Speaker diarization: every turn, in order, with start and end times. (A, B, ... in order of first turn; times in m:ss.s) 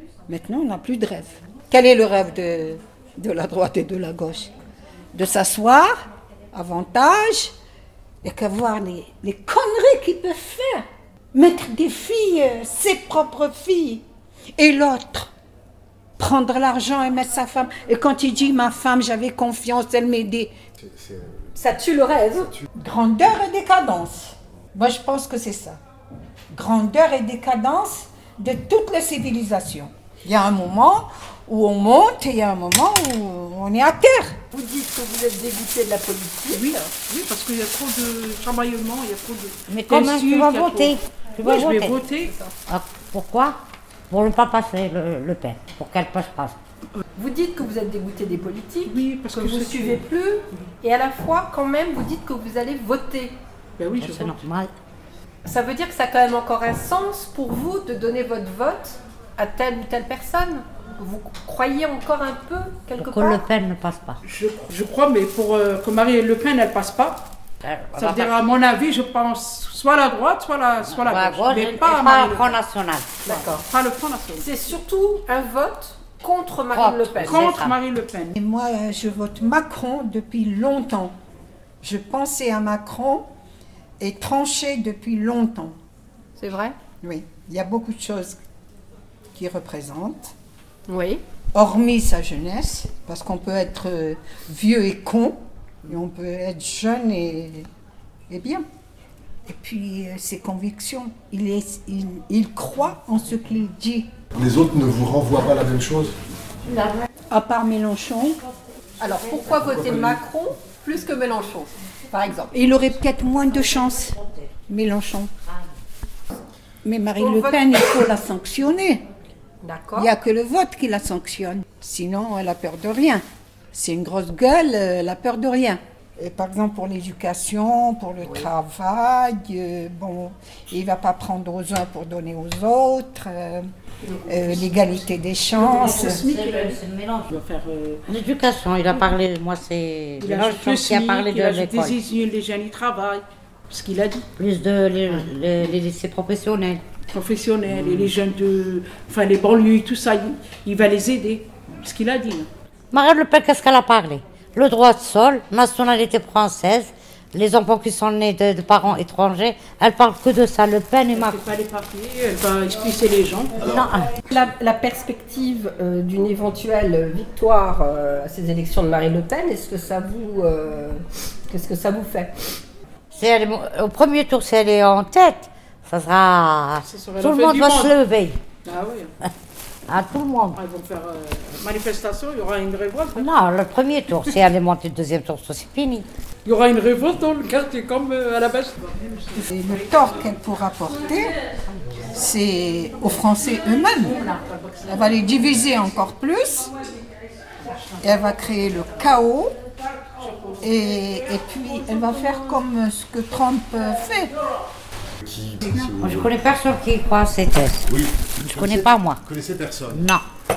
0:00.3-0:04.5 A
0:05.1-0:06.0 A
0:06.5-0:07.5 A
0:08.2-0:14.0 A
0:14.6-0:15.3 A
0:16.2-0:20.5 A
0:20.8-0:21.4 B
0:21.5-0:22.5 C
0:22.7-0:25.8 A
0:26.5-0:34.4 A
0:34.5-0:36.9 C
0:36.5-0:42.3 D
0:39.7-0:42.0 E
0:42.2-0:42.5 C
0:42.7-0:43.6 E
0:44.1-0:46.6 E
0:47.2-0:53.4 C
0:48.8-0:50.0 D
0:53.8-0:54.4 D
0:54.0-0:54.7 E
0:55.4-1:03.4 C
1:03.0-1:04.2 E
1:04.2-1:07.2 D
1:07.6-1:08.3 E
1:07.9-1:12.6 D
1:10.9-1:13.4 E
1:13.2-1:13.6 C
1:13.5-1:14.5 D
1:14.4-1:17.5 C
1:16.7-1:17.8 E
1:17.2-1:18.3 D
1:18.3-1:21.1 A
1:21.8-1:23.3 A
1:24.0-1:25.8 A
1:26.4-1:26.7 C
1:27.0-1:28.4 A
1:29.3-1:30.3 A
1:30.9-1:31.2 C
1:31.5-1:37.7 A
1:38.3-1:38.6 A
1:39.5-1:44.1 A
1:44.3-1:46.2 B
1:47.3-1:48.4 A
1:49.0-1:52.6 C
1:49.4-1:50.2 B
1:52.5-1:55.3 A
1:56.8-1:59.0 A
1:57.2-1:57.8 C
1:59.6-2:00.1 C
2:00.0-2:13.7 A
2:14.3-2:16.2 A
2:15.5-2:18.0 D
2:15.6-2:17.3 E
2:18.1-2:22.0 E
2:20.2-2:24.2 D
2:24.4-2:26.8 E
2:27.1-2:32.5 D
2:32.9-2:41.4 E
2:41.1-2:43.6 D
2:43.6-2:44.1 E
2:43.6-2:43.9 B
2:44.2-2:52.3 C
2:53.1-2:58.4 E
2:56.8-2:58.0 D
2:58.6-2:59.1 D
2:59.9-3:00.6 E
3:00.6-3:03.3 D
3:03.2-3:06.1 E
3:06.4-3:09.9 D
3:09.3-3:11.3 A
3:12.1-3:14.2 A
3:14.0-3:15.2 D
3:14.8-3:16.7 A
3:18.0-3:19.5 A
3:20.2-3:20.6 D
3:20.6-3:24.3 A
3:25.2-3:26.4 B
3:26.0-3:27.8 E
3:27.9-3:30.1 B
3:28.5-3:29.2 E
3:29.9-3:30.2 E